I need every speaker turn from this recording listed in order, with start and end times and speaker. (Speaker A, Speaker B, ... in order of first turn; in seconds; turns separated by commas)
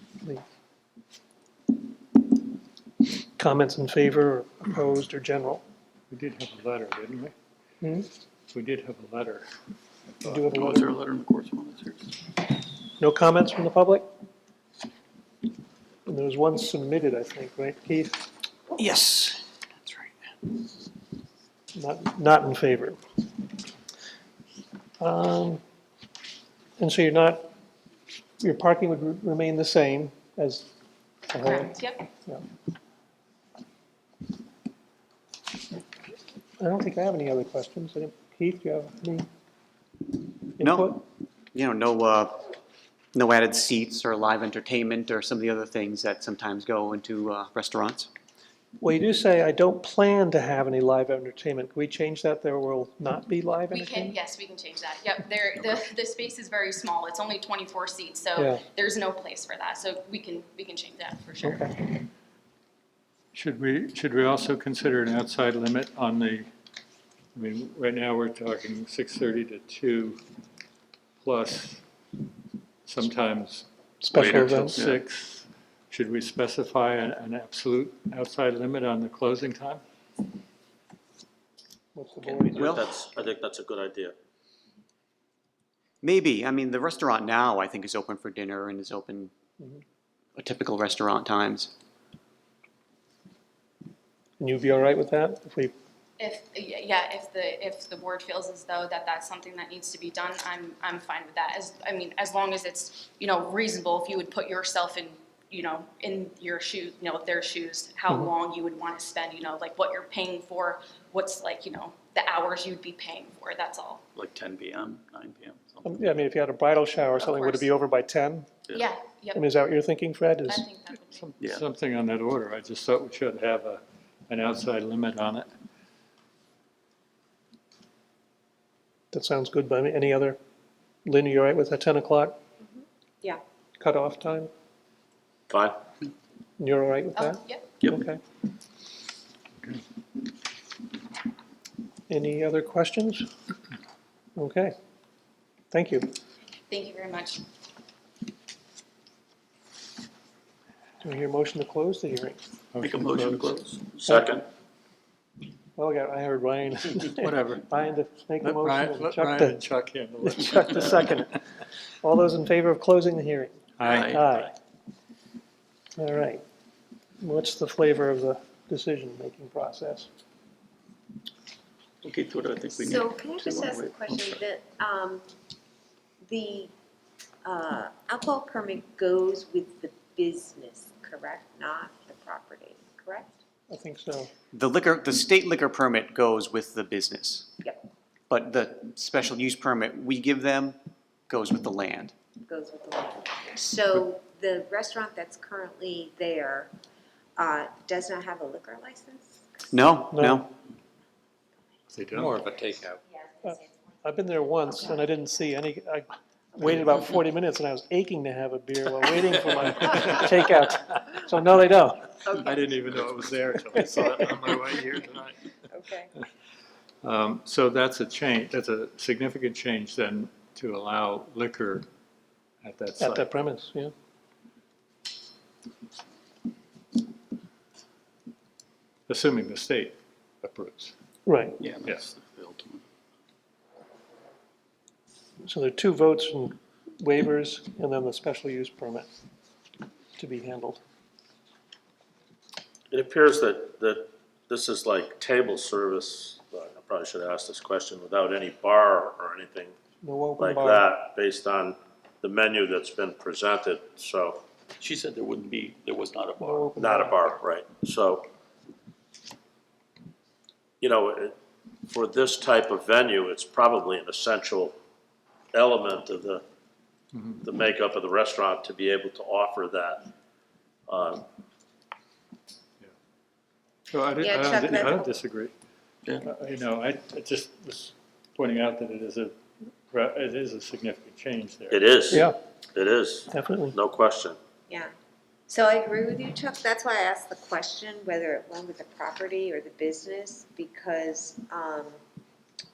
Speaker A: 3.4-5.6, Speaker B: 6.1-7.3, Speaker A: 7.8-8.1, Speaker B: 8.5-9.5, Speaker A: 10.2-11.0, Speaker C: 10.2-12.2, Speaker A: 13.0-14.1, Speaker A: 16.1-18.3, Speaker D: 18.8-19.4, Speaker A: 21.8-23.0, Speaker A: 25.0-25.6, Speaker A: 26.8-27.5, Speaker A: 28.4-30.7, Speaker A: 31.3-32.4, Speaker E: 31.4-32.1, Speaker A: 36.6-39.3, Speaker A: 40.6-41.0, Speaker D: 40.6-41.0, Speaker D: 41.5-42.6, Speaker D: 43.1-48.1, Speaker A: 48.8-54.2, Speaker E: 53.7-61.7, Speaker A: 58.4-58.6, Speaker A: 61.4-61.9, Speaker B: 63.3-66.5, Speaker B: 67.3-70.2, Speaker B: 71.2-71.8, Speaker B: 72.9-79.8, Speaker A: 74.0-74.8, Speaker C: 74.1-75.0, Speaker A: 82.0-82.9, Speaker F: 82.4-84.2, Speaker D: 82.6-82.8, Speaker D: 86.0-89.3, Speaker D: 90.4-91.7, Speaker A: 94.4-95.7, Speaker E: 96.2-114.0, Speaker C: 114.2-116.2, Speaker A: 115.8-118.5, Speaker E: 117.2-117.6, Speaker E: 118.7-119.4, Speaker A: 119.3-120.7, Speaker E: 120.5-121.3, Speaker B: 121.1-125.5, Speaker A: 129.1-130.4, Speaker A: 131.1-132.4, Speaker G: 132.6-133.4, Speaker A: 133.8-134.5, Speaker F: 135.5-135.8, Speaker A: 136.6-138.2, Speaker E: 137.2-137.7, Speaker A: 142.1-143.3, Speaker A: 144.4-144.7, Speaker A: 145.7-146.1, Speaker E: 146.7-147.4, Speaker A: 151.0-152.4, Speaker B: 152.7-153.3, Speaker C: 152.8-154.1, Speaker F: 154.1-154.4, Speaker A: 155.8-159.6, Speaker B: 157.2-157.7, Speaker B: 158.4-161.2, Speaker A: 160.2-161.4, Speaker A: 162.0-164.5, Speaker B: 163.8-164.4, Speaker C: 163.8-164.4, Speaker A: 166.0-166.4, Speaker A: 167.2-170.1, Speaker C: 172.0-174.4, Speaker G: 172.8-175.3, Speaker G: 176.2-176.7, Speaker G: 177.4-183.3, Speaker A: 183.7-184.3, Speaker D: 184.5-187.6, Speaker D: 188.3-190.8, Speaker D: 191.3-192.1, Speaker G: 192.5-196.7, Speaker G: 197.4-199.6, Speaker D: 199.7-200.5, Speaker A: 200.1-200.4, Speaker B: 201.9-203.0, Speaker A: 203.4-212.3, Speaker B: 212.3-215.5, Speaker G: 215.7-216.1, Speaker B: 217.0-221.9, Speaker B: 222.6-223.3, Speaker A: 223.0-223.9, Speaker B: 229.1-230.9, Speaker A: 231.3-231.6, Speaker C: 231.6-232.8, Speaker A: 235.5-239.1, Speaker A: 240.2-240.8, Speaker F: 242.9-249.8, Speaker A: 250.0-250.8, Speaker F: 250.4-254.4, Speaker C: 254.8-256.7, Speaker A: 256.4-257.3, Speaker F: 256.8-258.3, Speaker F: 260.8-261.4, Speaker F: 261.9-264.8, Speaker F: 265.5-266.4, Speaker B: 267.1-267.4, Speaker F: 267.4-270.1, Speaker F: 270.9-271.2, Speaker B: 273.9-275.5, Speaker G: 274.2-275.1, Speaker B: 276.2-279.4, Speaker B: 279.9-282.3, Speaker F: 281.7-282.2, Speaker A: 282.1-282.4, Speaker F: 282.7-284.4, Speaker A: 283.3-283.8, Speaker G: 285.5-292.0